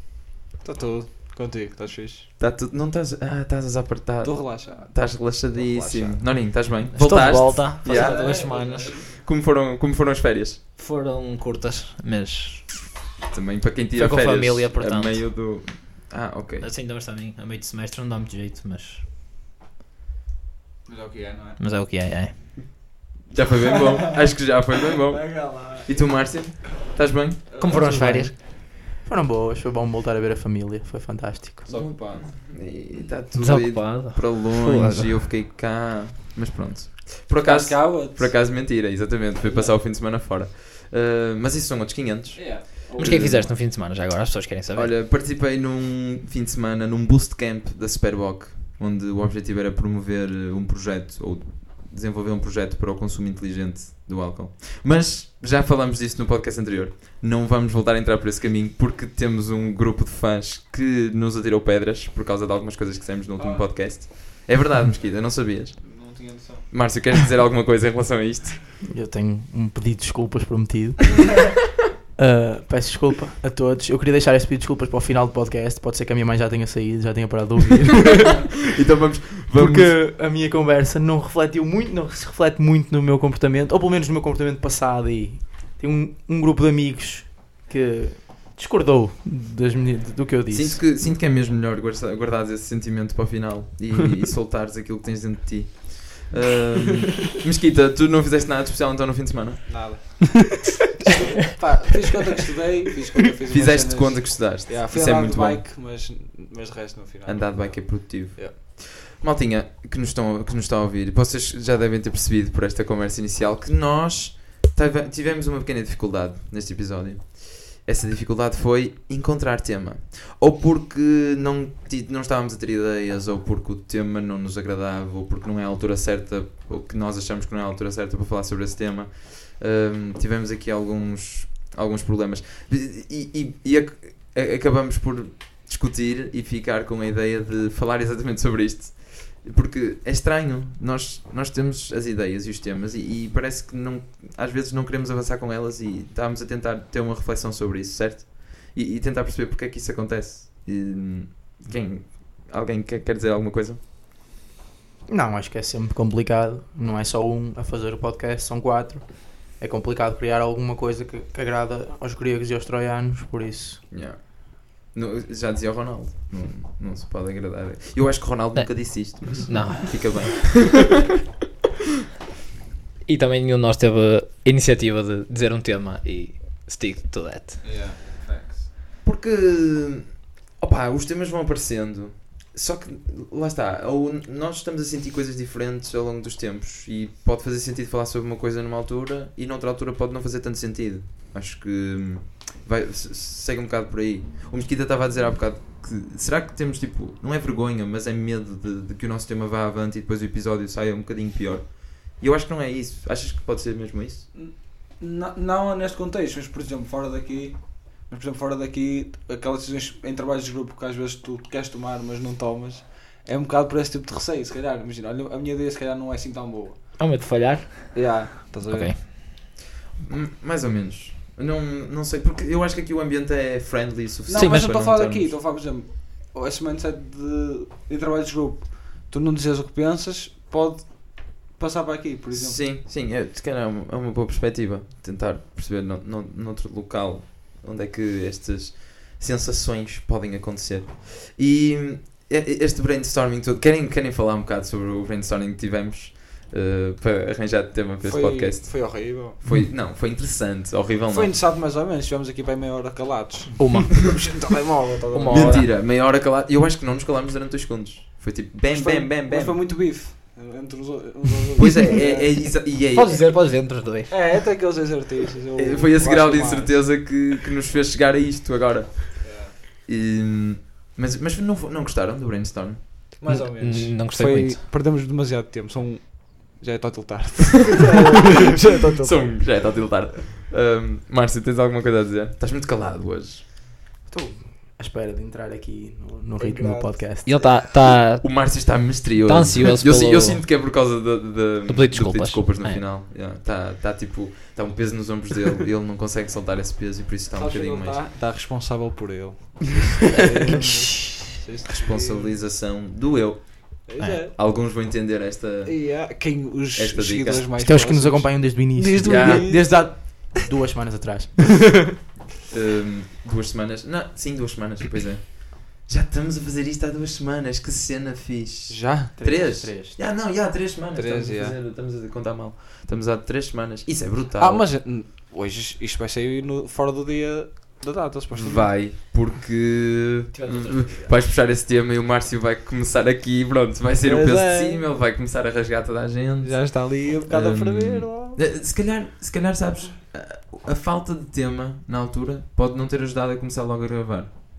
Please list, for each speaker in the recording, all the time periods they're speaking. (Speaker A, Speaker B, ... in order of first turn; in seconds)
Speaker A: 0.6-2.3, 4.2-6.2, 7.8-9.1, 20.9-21.6, 25.1-26.2, 27.5-27.9, 31.7-32.3, 37.4-38.4, 39.4-39.8, 42.3-43.3, 63.4-63.7, 65.8-66.7, 99.7-108.6, 177.6-178.7, 204.3-216.9, 217.9-218.9, 224.3-232.6, 248.0-249.4, 251.1-255.7, 258.7-262.4, 264.1-266.8, 269.2-269.6, 273.2-279.5, 286.4-287.0, 297.3-302.4, 303.9-304.3, 305.6-310.2, 318.7-319.1, 320.9-321.6, 324.4-328.7, 334.0-334.8, 336.4-338.4
Speaker B: 2.4-10.6, 13.3-16.7, 23.2-27.8, 31.7-43.6, 44.7-68.6, 78.7-80.0, 90.5-100.1, 103.5-105.6, 107.2-153.8, 163.9-170.9, 179.0-204.3, 220.0-225.3, 232.3-251.4, 255.3-259.6, 261.6-263.2, 265.6-273.1, 279.0-283.4, 288.2-298.0, 301.7-306.0, 306.7-307.5, 309.0-309.5, 312.5-324.6, 328.3-344.3
Speaker C: 6.9-9.1, 10.8-12.9, 13.9-15.2, 16.6-19.0, 21.6-22.5, 27.6-28.3, 33.3-35.2, 43.0-44.9, 168.5-170.4, 173.1-177.9, 217.0-219.0, 224.3-224.9, 253.6-254.1, 255.1-255.7, 262.9-264.4, 273.3-274.6, 287.2-290.4, 291.7-292.8, 330.3-331.1
Speaker D: 27.7-31.8, 68.8-71.6, 72.2-78.6, 79.5-90.8, 155.1-163.8, 284.1-287.4, 307.6-311.9, 319.2-319.9